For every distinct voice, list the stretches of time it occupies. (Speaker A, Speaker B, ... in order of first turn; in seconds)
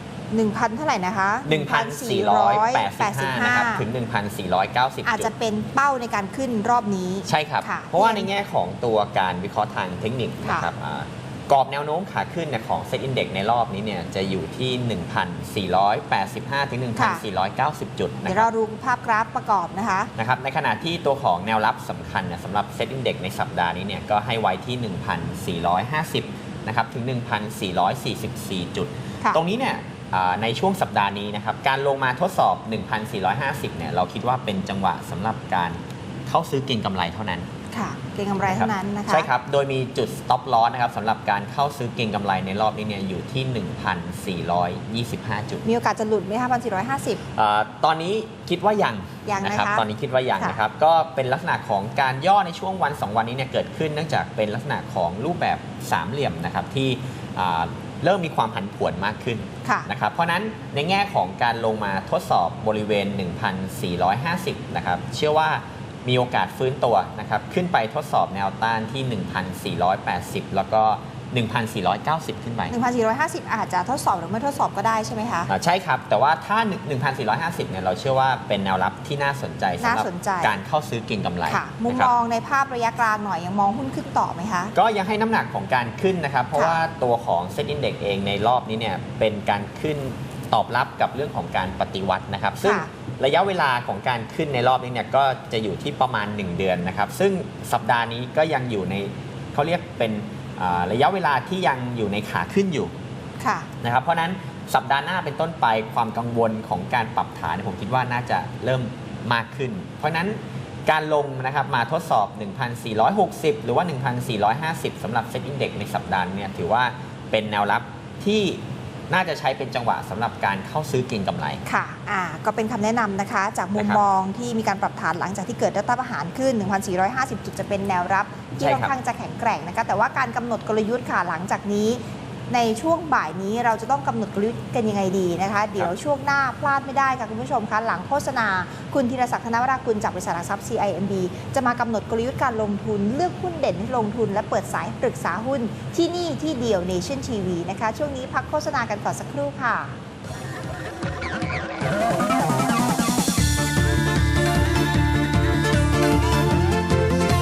Speaker A: 0.3-3.8, 5.0-8.3, 16.9-17.2, 18.2-20.1, 37.7-39.3, 45.6-47.2, 49.2-49.8, 72.7-75.5, 79.8-80.6, 81.5-84.7, 86.5-86.8, 92.6-92.9, 103.4-103.7, 121.6-149.9
Speaker B: 1.4-5.3, 7.2-18.5, 20.1-37.5, 38.5-45.6, 47.3-72.7, 75.5-82.1, 84.7-102.9, 103.8-121.6, 123.8-124.0, 128.6-128.9